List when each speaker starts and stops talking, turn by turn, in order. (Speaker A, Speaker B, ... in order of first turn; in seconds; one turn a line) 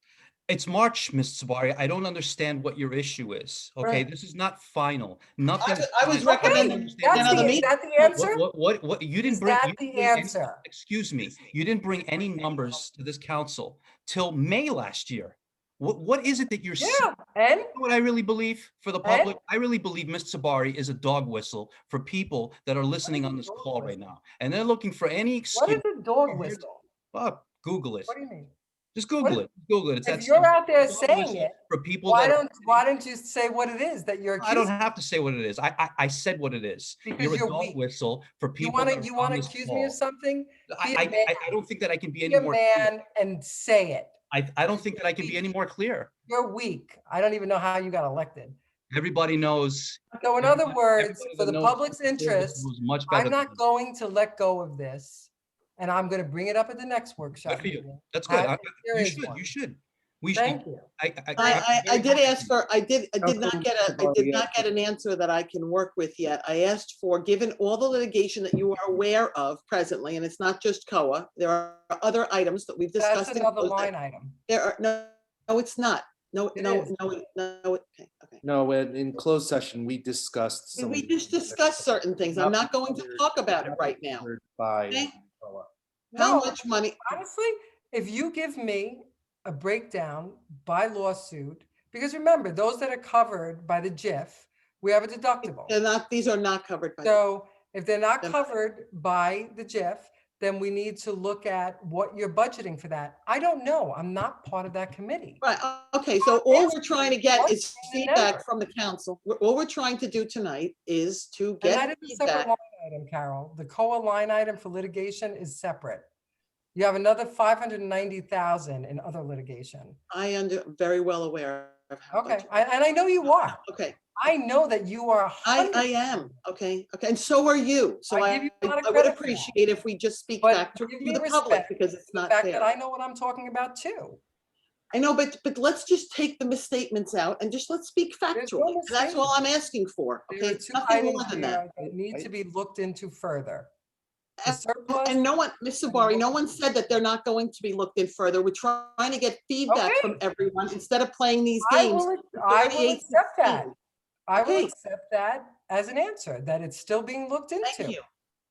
Speaker A: 0.5-17.1
Speaker B: 5.6-7.7
Speaker C: 6.2-8.4
Speaker C: 9.3-10.6
Speaker C: 16.8-17.7
Speaker A: 17.7-26.6
Speaker C: 19.0-19.3
Speaker C: 23.1-24.0
Speaker C: 25.5-26.8
Speaker A: 27.1-28.1
Speaker C: 28.1-28.5
Speaker A: 28.9-32.8
Speaker C: 29.2-29.5
Speaker C: 30.1-34.7
Speaker A: 34.4-40.0
Speaker C: 37.0-37.8
Speaker C: 38.6-41.5
Speaker A: 40.7-43.0
Speaker C: 42.3-44.1
Speaker A: 44.3-46.1
Speaker C: 44.9-45.4
Speaker C: 46.3-48.6
Speaker A: 48.9-53.6
Speaker C: 50.2-59.5
Speaker A: 57.5-62.5
Speaker C: 60.3-61.6
Speaker B: 61.4-73.9
Speaker D: 63.2-64.7
Speaker C: 73.0-74.4
Speaker B: 74.5-78.4
Speaker C: 76.5-76.9
Speaker D: 78.4-85.7
Speaker B: 80.8-84.3
Speaker B: 84.9-85.1
Speaker C: 86.1-95.8
Speaker B: 86.2-87.2
Speaker B: 95.4-97.2
Speaker C: 97.0-105.4
Speaker B: 105.4-112.5
Speaker C: 106.2-108.4
Speaker C: 111.6-116.1
Speaker C: 116.7-120.0
Speaker B: 120.1-122.5
Speaker C: 122.1-123.6
Speaker B: 123.6-124.1
Speaker C: 124.2-126.3
Speaker B: 125.5-132.7
Speaker C: 128.1-129.5
Speaker C: 130.4-134.2
Speaker B: 134.9-141.6
Speaker C: 138.3-139.3
Speaker C: 140.3-143.7
Speaker D: 141.8-142.3
Speaker B: 144.4-153.7
Speaker C: 144.5-145.2
Speaker C: 145.9-146.3
Speaker C: 149.7-150.2
Speaker C: 151.6-153.7
Speaker C: 154.3-158.0
Speaker B: 154.4-154.7
Speaker B: 157.6-158.0